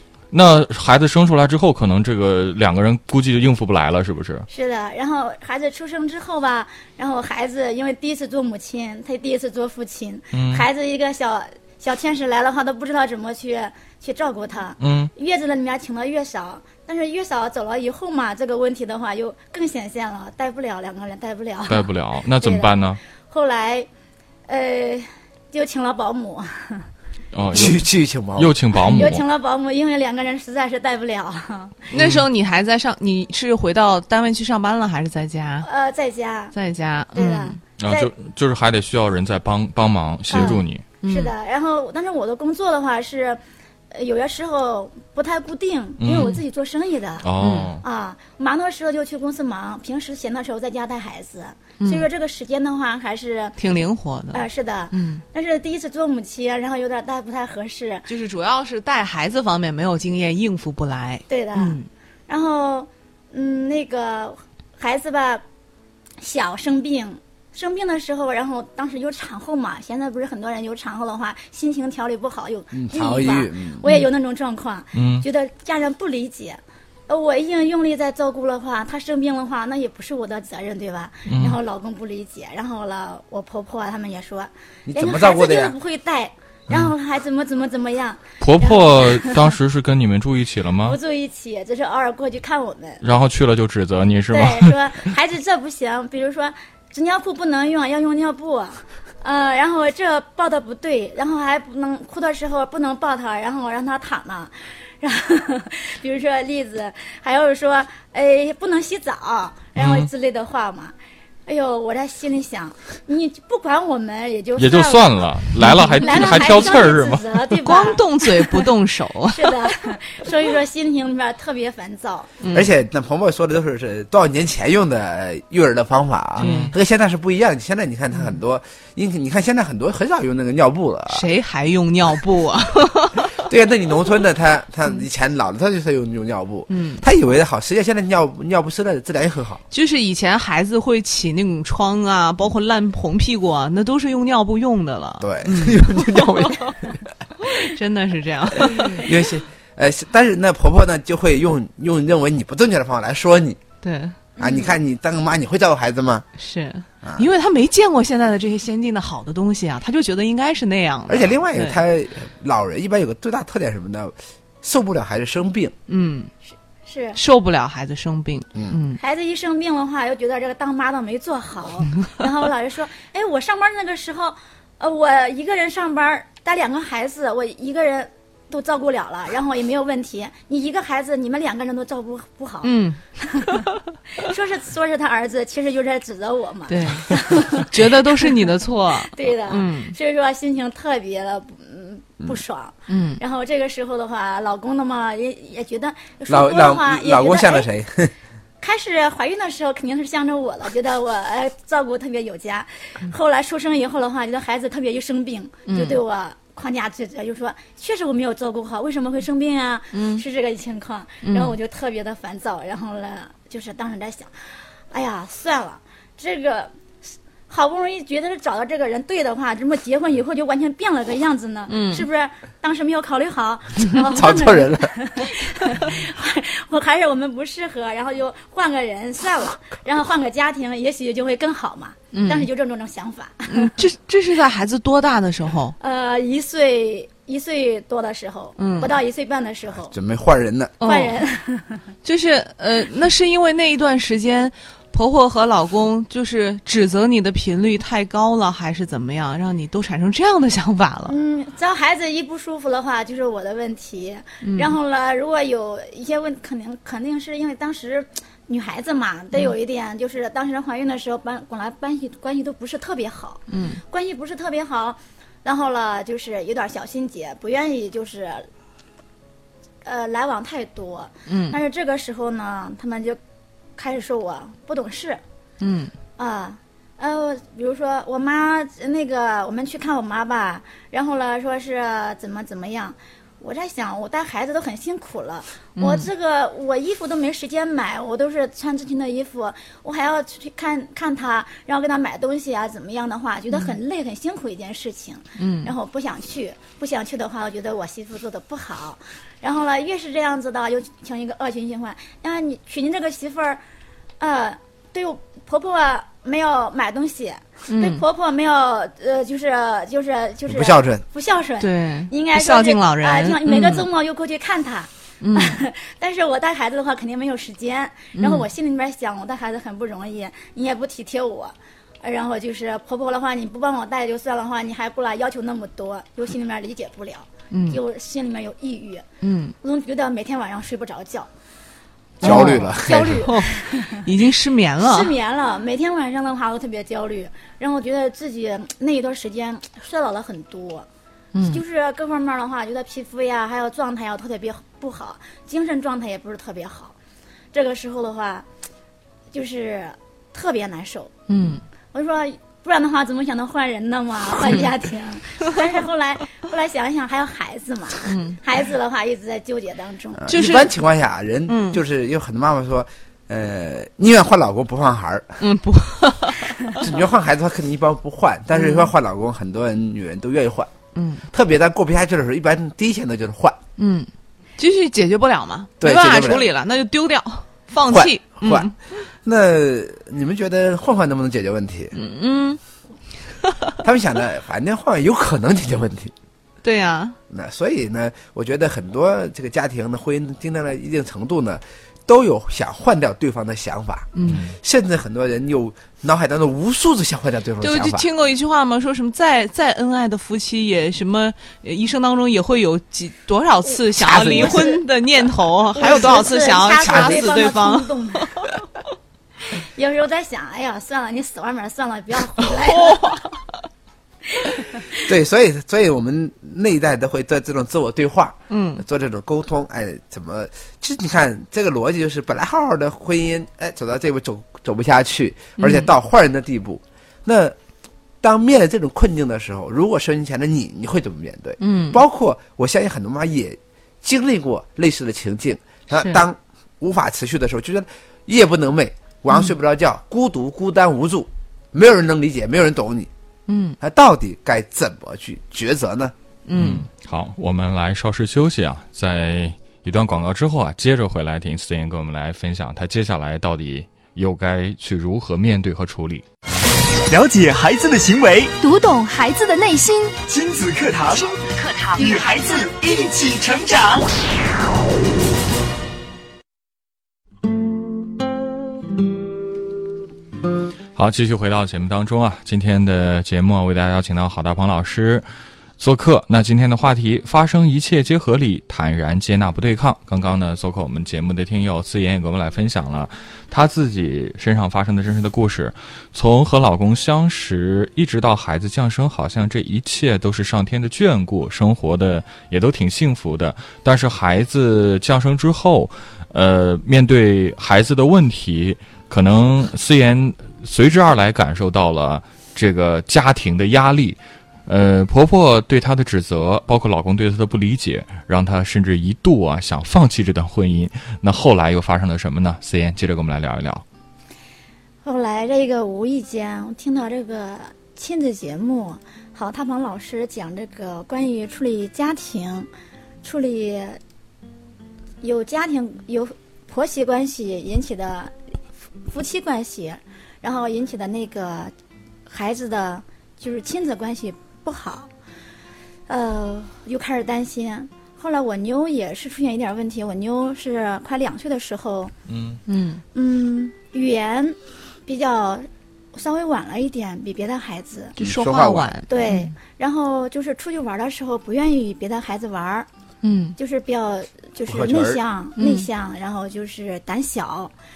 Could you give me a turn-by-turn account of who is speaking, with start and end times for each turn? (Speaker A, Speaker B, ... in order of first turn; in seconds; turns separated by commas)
Speaker A: 0.3-4.5, Speaker B: 4.5-23.9, Speaker A: 10.3-10.7, Speaker A: 14.8-15.1, Speaker A: 21.7-23.0, Speaker B: 24.5-26.9, Speaker A: 27.3-29.2, Speaker C: 27.5-28.5, Speaker B: 28.8-31.9, Speaker A: 31.9-32.3, Speaker D: 31.9-35.7, Speaker B: 35.6-36.5, Speaker D: 36.5-37.6, Speaker B: 37.1-38.1, Speaker A: 37.8-40.9, Speaker B: 40.3-43.4, Speaker D: 41.0-41.3, Speaker B: 43.9-47.3, Speaker A: 46.0-46.4, Speaker A: 47.2-47.8, Speaker D: 47.4-47.7, Speaker B: 47.8-53.6, Speaker D: 51.8-52.1, Speaker D: 53.6-55.2, Speaker B: 54.3-58.1, Speaker D: 58.1-61.9, Speaker B: 61.3-65.4, Speaker B: 66.2-89.5, Speaker C: 72.7-73.8, Speaker A: 74.9-75.2, Speaker A: 81.3-81.6, Speaker C: 84.9-85.8, Speaker A: 88.4-91.0, Speaker B: 90.8-93.0, Speaker A: 93.0-95.1, Speaker B: 94.3-110.9, Speaker A: 109.8-110.1, Speaker B: 111.5-115.3, Speaker A: 114.6-117.4, Speaker D: 115.6-116.8, Speaker B: 116.0-118.7, Speaker D: 117.6-119.7, Speaker B: 119.3-122.3, Speaker D: 122.4-122.7, Speaker C: 122.5-131.3, Speaker A: 126.4-126.7, Speaker D: 126.4-126.7, Speaker D: 131.1-133.4, Speaker C: 133.3-139.6, Speaker D: 136.7-137.0, Speaker D: 139.7-146.9, Speaker C: 145.2-147.0, Speaker D: 147.4-149.4, Speaker C: 148.6-153.6, Speaker D: 153.8-154.7, Speaker C: 154.4-156.3, Speaker D: 156.4-161.8, Speaker C: 157.0-157.3, Speaker C: 161.1-165.8, Speaker D: 165.9-166.3, Speaker B: 166.8-167.2, Speaker D: 167.2-169.0, Speaker B: 169.0-183.6, Speaker D: 182.6-183.0, Speaker B: 184.2-188.3, Speaker D: 186.7-189.9, Speaker B: 189.0-197.7, Speaker D: 192.9-193.2, Speaker C: 196.3-198.1, Speaker B: 198.6-214.3, Speaker D: 205.7-206.0, Speaker D: 209.9-210.2, Speaker D: 211.2-211.6, Speaker B: 214.9-233.7, Speaker D: 221.7-222.1, Speaker C: 224.0-224.9, Speaker D: 232.1-232.5, Speaker D: 233.5-235.8, Speaker B: 235.8-239.9, Speaker D: 238.6-238.9, Speaker C: 239.9-240.8, Speaker D: 240.8-241.2, Speaker B: 240.8-241.8, Speaker D: 242.0-251.2, Speaker B: 251.1-268.5, Speaker D: 254.4-254.8, Speaker D: 263.5-263.8, Speaker B: 269.8-273.2, Speaker D: 271.3-271.6, Speaker B: 273.8-275.2, Speaker D: 275.6-275.9, Speaker B: 276.2-303.6, Speaker D: 285.8-286.1, Speaker D: 295.4-295.7, Speaker B: 304.2-329.1, Speaker D: 307.7-308.0, Speaker C: 310.5-311.0, Speaker D: 311.6-313.9, Speaker D: 315.2-315.6, Speaker D: 318.2-318.5, Speaker D: 327.5-327.8, Speaker D: 329.2-329.5, Speaker B: 329.6-331.3, Speaker B: 332.2-334.0, Speaker C: 332.2-333.3, Speaker D: 332.2-335.1, Speaker B: 334.8-340.9, Speaker D: 341.3-341.6, Speaker B: 341.4-346.9, Speaker B: 347.5-348.5, Speaker B: 349.3-351.1, Speaker D: 351.3-351.6, Speaker B: 351.9-360.3, Speaker D: 354.4-354.7, Speaker D: 358.1-358.4, Speaker C: 360.2-365.4, Speaker D: 360.3-360.7, Speaker D: 361.5-361.8, Speaker D: 365.4-366.9, Speaker C: 366.8-370.7, Speaker D: 368.5-368.9, Speaker D: 370.9-371.2, Speaker C: 371.3-373.6, Speaker D: 373.8-378.8, Speaker C: 375.8-376.5, Speaker C: 377.9-378.7, Speaker C: 379.2-381.9, Speaker D: 381.9-382.6, Speaker C: 383.8-386.1, Speaker D: 386.6-387.2, Speaker C: 387.3-398.1, Speaker D: 394.2-394.5, Speaker D: 397.6-408.5, Speaker C: 403.9-404.8, Speaker B: 404.2-404.8, Speaker B: 405.7-408.4, Speaker C: 405.8-406.2, Speaker C: 406.8-407.5, Speaker B: 409.6-413.2, Speaker D: 412.6-413.3, Speaker C: 415.0-427.6, Speaker D: 418.5-418.8, Speaker D: 425.6-425.9, Speaker C: 428.2-443.1, Speaker D: 431.6-432.0, Speaker D: 436.0-436.2, Speaker D: 443.5-443.8, Speaker C: 443.8-446.1, Speaker D: 446.5-446.9, Speaker A: 446.5-456.2, Speaker E: 457.1-458.5, Speaker F: 458.6-460.2, Speaker E: 460.2-464.1, Speaker F: 461.1-462.2, Speaker A: 470.9-475.3, Speaker A: 475.8-513.8, Speaker B: 515.0-522.7, Speaker B: 523.2-524.0, Speaker B: 525.2-528.3, Speaker B: 529.1-531.7, Speaker B: 532.3-535.1, Speaker B: 536.1-542.1, Speaker A: 542.3-542.6, Speaker D: 542.7-543.0, Speaker B: 543.1-544.6, Speaker B: 545.1-548.1, Speaker D: 548.2-549.5, Speaker C: 548.2-549.0, Speaker B: 549.1-552.9, Speaker D: 553.2-553.6, Speaker B: 553.6-557.7, Speaker C: 554.7-555.2, Speaker D: 555.6-555.9